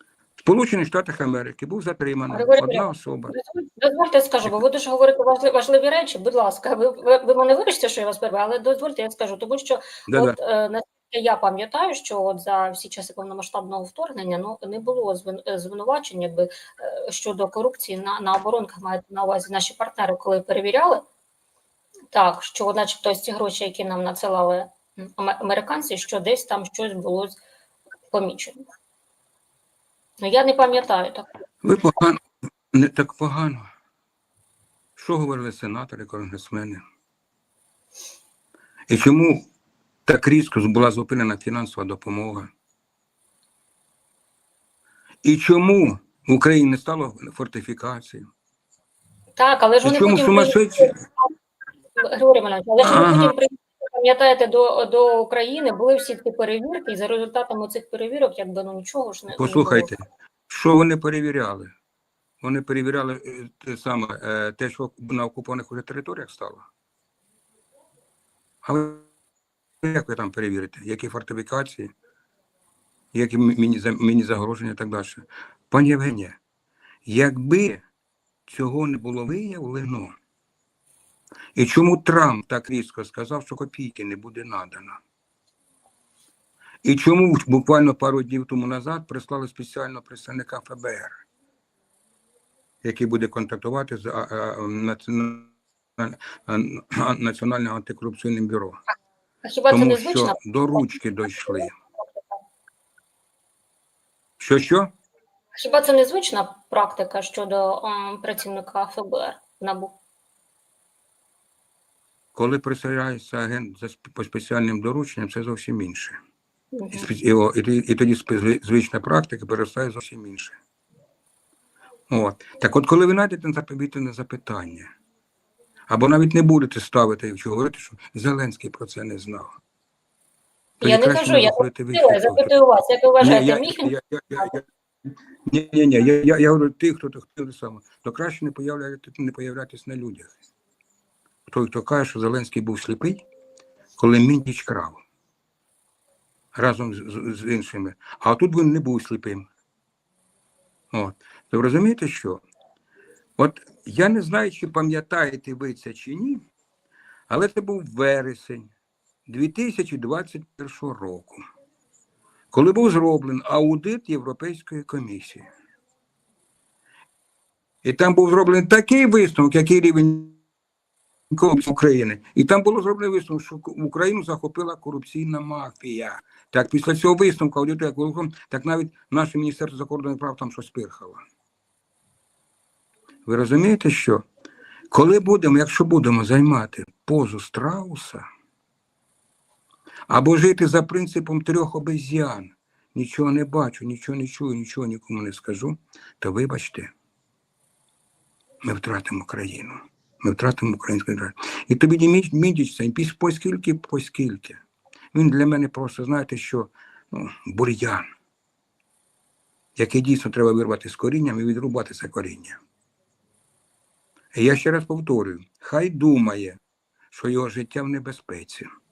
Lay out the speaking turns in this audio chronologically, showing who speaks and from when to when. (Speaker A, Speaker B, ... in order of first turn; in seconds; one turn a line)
Speaker A: 0.4-3.4
Speaker B: 2.3-21.1
Speaker A: 10.1-10.4
Speaker B: 22.1-27.4
Speaker B: 28.1-28.6
Speaker B: 30.2-31.3
Speaker A: 31.6-32.2
Speaker A: 32.7-33.7
Speaker A: 35.0-36.8
Speaker A: 38.9-39.5
Speaker A: 40.1-42.5
Speaker A: 45.2-48.2
Speaker B: 49.4-51.3
Speaker A: 49.8-51.0
Speaker B: 52.0-59.9
Speaker A: 52.8-53.4
Speaker A: 59.4-61.7
Speaker A: 62.4-66.7
Speaker A: 68.6-69.1
Speaker A: 69.8-71.9
Speaker A: 73.1-76.4
Speaker A: 77.1-77.8
Speaker A: 78.5-80.1
Speaker A: 81.5-85.0
Speaker A: 86.8-91.2
Speaker A: 92.8-98.8
Speaker B: 99.4-101.7
Speaker A: 99.7-101.7
Speaker A: 104.4-104.9
Speaker B: 105.6-110.0
Speaker A: 112.3-116.2
Speaker B: 116.7-117.1
Speaker A: 116.9-120.6
Speaker A: 122.1-124.9
Speaker A: 125.9-129.5
Speaker B: 130.8-134.5
Speaker A: 130.8-132.5
Speaker A: 133.2-134.6
Speaker A: 135.5-140.3
Speaker A: 141.5-143.2
Speaker A: 144.0-145.0
Speaker A: 146.6-149.5
Speaker A: 150.9-152.4
Speaker A: 153.4-156.4
Speaker A: 157.3-158.7
Speaker A: 159.3-161.4
Speaker A: 162.5-165.4
Speaker A: 167.8-170.4
Speaker A: 171.3-181.2
Speaker A: 183.3-184.2
Speaker A: 184.9-188.2
Speaker A: 190.1-196.9
Speaker A: 198.6-204.6
Speaker A: 205.1-208.1
Speaker A: 209.8-212.6
Speaker A: 214.3-216.6
Speaker A: 217.1-218.7